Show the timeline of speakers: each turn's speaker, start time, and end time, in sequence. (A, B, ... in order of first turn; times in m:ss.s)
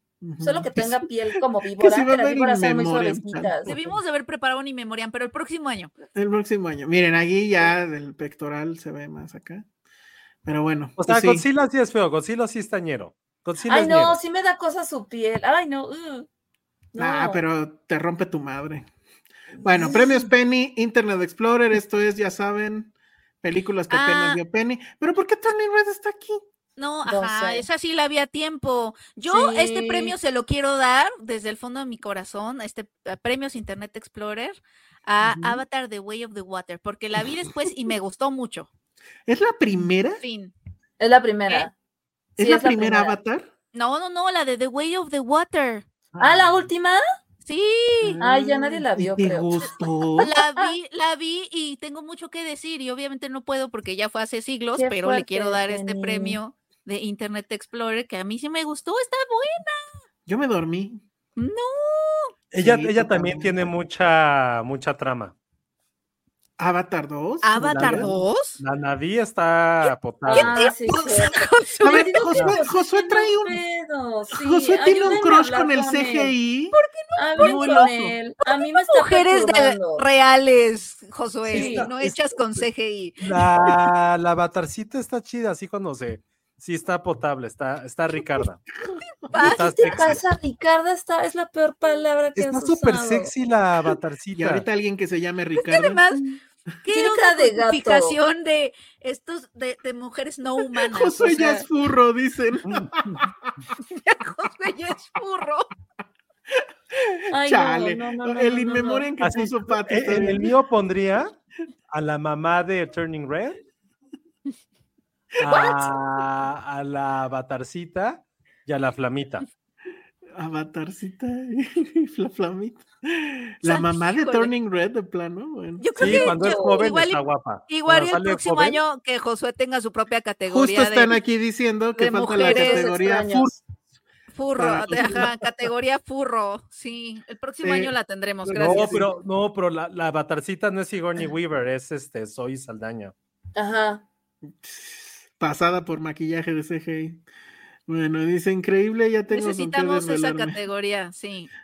0:00.2-0:01.0 A
0:00.4-0:03.7 B
0:01.8-0:03.9 A
0:03.6-0:05.9 C
0:06.1-0:09.6 A
0:10.4-0:11.4 A
0:11.0-0:14.2 D
0:13.6-0:16.2 B
0:16.9-0:17.4 B
0:17.0-0:18.8 A
0:19.6-0:26.4 A
0:19.6-0:20.2 B
0:23.9-0:24.4 C
0:26.8-0:38.7 C
0:27.0-0:27.6 B
0:29.3-0:30.1 B
0:35.2-0:35.6 A
0:39.3-0:40.2 A
0:40.2-0:40.5 C
0:41.0-0:41.7 B
0:42.4-0:43.5 A
0:42.4-0:43.2 B
0:43.7-0:45.8 C
0:46.2-0:46.5 A
0:46.2-0:47.0 B
0:47.4-0:48.2 C
0:48.0-0:50.3 A
0:48.2-0:49.6 B
0:50.2-0:59.8 C
0:50.4-0:50.7 B
0:54.7-0:56.4 B
1:00.2-1:01.0 A
1:01.4-1:02.3 C
1:02.5-1:05.3 D
1:02.6-1:03.6 A
1:06.6-1:08.1 A
1:07.4-1:08.6 C
1:07.6-1:10.5 D
1:10.3-1:12.2 C
1:10.3-1:16.3 B
1:11.8-1:13.6 A
1:14.3-1:16.8 A
1:16.7-1:17.9 C
1:17.1-1:20.0 B
1:17.4-1:18.2 A
1:18.4-1:23.2 C
1:21.5-1:21.9 B
1:21.5-1:22.6 A
1:21.5-1:21.9 D
1:23.2-1:28.6 D
1:28.8-1:30.1 A
1:29.3-1:29.7 C
1:29.4-1:30.2 D
1:29.4-1:33.3 B
1:32.4-1:34.6 D
1:34.4-1:36.0 A
1:35.6-1:41.6 C
1:36.9-1:38.2 B
1:40.8-1:43.5 A
1:41.2-1:41.6 B
1:42.7-1:43.2 D
1:43.9-1:45.7 C
1:46.9-1:50.5 A
1:47.3-1:49.1 B
1:49.2-1:51.3 D
1:51.9-1:53.6 D
1:55.4-1:59.4 D
1:55.5-1:55.9 C
2:00.4-2:05.9 A
2:03.6-2:04.5 C
2:05.8-2:11.2 C
2:06.0-2:08.8 D
2:06.0-2:06.9 B
2:10.5-2:13.6 A
2:12.0-2:12.9 C
2:12.4-2:13.6 B
2:14.3-2:19.0 C
2:14.6-2:15.3 A
2:17.6-2:17.9 A
2:18.5-2:23.1 D
2:18.5-2:19.1 A
2:23.6-2:24.0 B
2:24.6-2:27.2 A
2:27.9-2:30.6 A
2:29.3-2:31.5 C